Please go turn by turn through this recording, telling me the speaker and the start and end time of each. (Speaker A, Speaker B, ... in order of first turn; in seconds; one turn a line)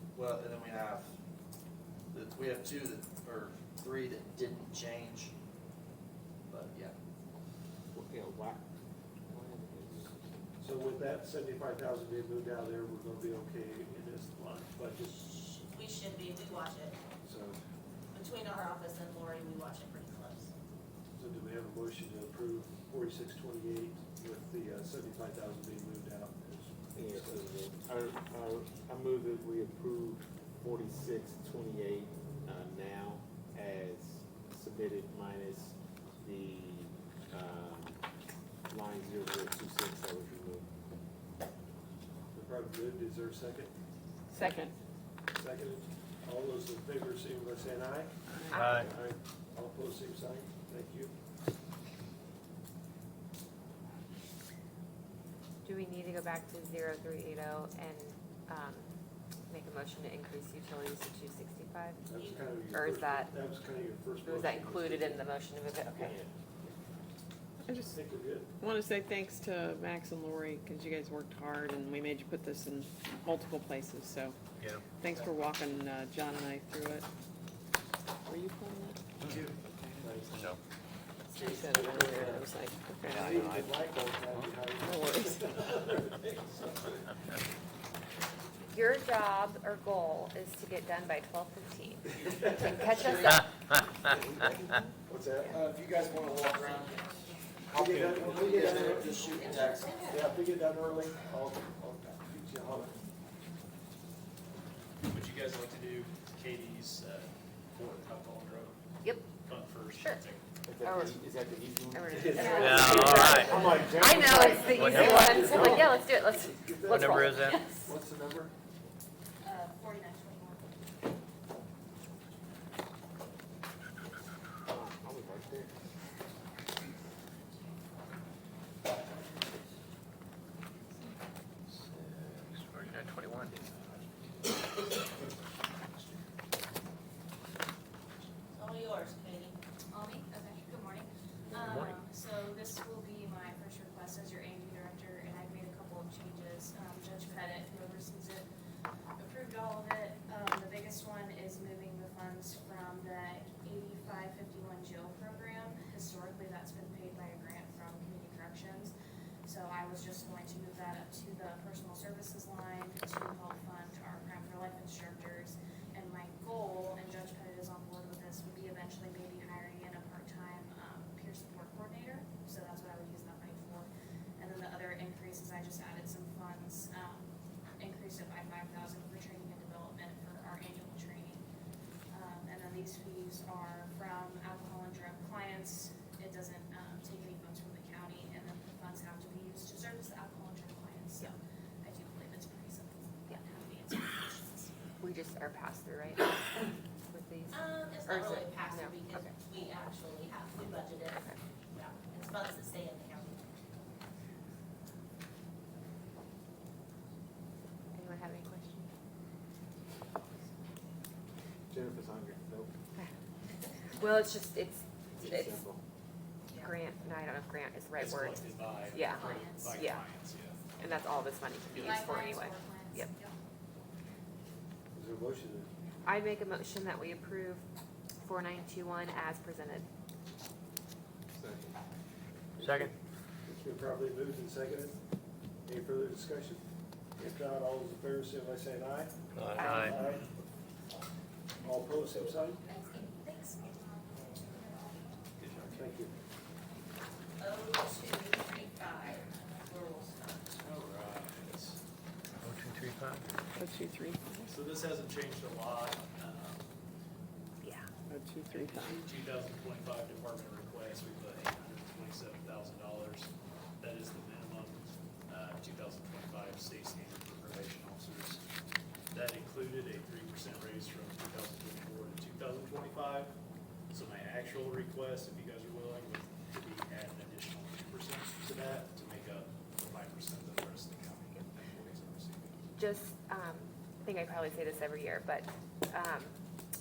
Speaker A: 0.1-1.1
Speaker A: 2.1-5.3
Speaker A: 6.5-6.9
Speaker B: 7.9-8.6
Speaker B: 9.2-10.1
Speaker C: 10.6-15.2
Speaker D: 15.2-17.0
Speaker C: 17.2-17.6
Speaker D: 18.1-20.5
Speaker C: 21.1-27.4
Speaker B: 26.9-38.0
Speaker B: 38.7-40.6
Speaker C: 42.3-43.7
Speaker E: 44.3-44.7
Speaker F: 44.4-44.7
Speaker C: 45.3-51.1
Speaker E: 48.5-48.9
Speaker G: 48.5-48.9
Speaker E: 55.6-58.9
Speaker E: 59.5-62.0
Speaker C: 62.0-65.2
Speaker D: 62.2-62.4
Speaker E: 62.7-63.3
Speaker E: 64.2-66.2
Speaker B: 66.0-66.3
Speaker F: 67.7-68.0
Speaker C: 67.9-68.5
Speaker F: 68.6-74.3
Speaker H: 74.6-74.8
Speaker F: 74.9-77.1
Speaker F: 78.2-79.0
Speaker H: 79.3-79.6
Speaker F: 79.7-80.4
Speaker C: 80.0-80.5
Speaker F: 81.3-83.3
Speaker C: 81.3-82.5
Speaker C: 83.1-87.1
Speaker G: 83.1-83.7
Speaker F: 84.8-85.6
Speaker E: 88.7-93.5
Speaker B: 94.2-94.5
Speaker C: 95.1-95.6
Speaker A: 95.5-97.0
Speaker C: 97.7-103.0
Speaker A: 97.7-100.0
Speaker D: 98.5-100.3
Speaker H: 105.1-108.8
Speaker E: 109.0-109.3
Speaker H: 109.5-110.4
Speaker E: 109.9-110.2
Speaker B: 110.6-115.9
Speaker E: 110.8-111.2
Speaker E: 111.9-117.9
Speaker C: 112.1-113.8
Speaker I: 112.3-112.9
Speaker G: 112.6-113.6
Speaker C: 114.7-118.5
Speaker G: 114.8-115.2
Speaker G: 117.0-117.6
Speaker I: 119.4-120.7
Speaker B: 124.7-125.7
Speaker G: 132.3-133.5
Speaker D: 138.5-139.6
Speaker I: 139.9-148.5
Speaker I: 149.2-158.9
Speaker I: 159.4-181.4
Speaker I: 182.1-194.7
Speaker E: 195.0-199.3
Speaker D: 197.5-203.5
Speaker E: 207.9-208.9
Speaker B: 211.7-212.7
Speaker E: 213.9-215.6
Speaker B: 215.1-215.8
Speaker E: 216.5-220.1
Speaker H: 217.9-220.7
Speaker I: 219.0-219.9
Speaker E: 220.8-223.1
Speaker I: 221.7-223.3
Speaker H: 221.7-222.2
Speaker C: 224.9-225.7
Speaker E: 226.0-227.6
Speaker E: 228.2-229.8
Speaker B: 231.4-231.7
Speaker C: 232.6-232.9
Speaker G: 232.6-232.9
Speaker C: 233.4-235.0
Speaker C: 235.7-236.6
Speaker C: 237.2-240.3
Speaker G: 239.3-240.0
Speaker E: 239.6-240.0
Speaker C: 241.6-242.6
Speaker D: 242.7-245.0
Speaker H: 245.4-245.8
Speaker C: 245.7-246.1
Speaker D: 247.4-250.6
Speaker H: 250.6-251.8
Speaker G: 252.4-253.2
Speaker F: 253.5-254.6
Speaker H: 254.5-256.6
Speaker F: 258.1-259.1
Speaker H: 258.5-263.3
Speaker H: 263.8-268.4
Speaker H: 269.1-273.3
Speaker H: 273.9-282.6
Speaker E: 282.8-286.4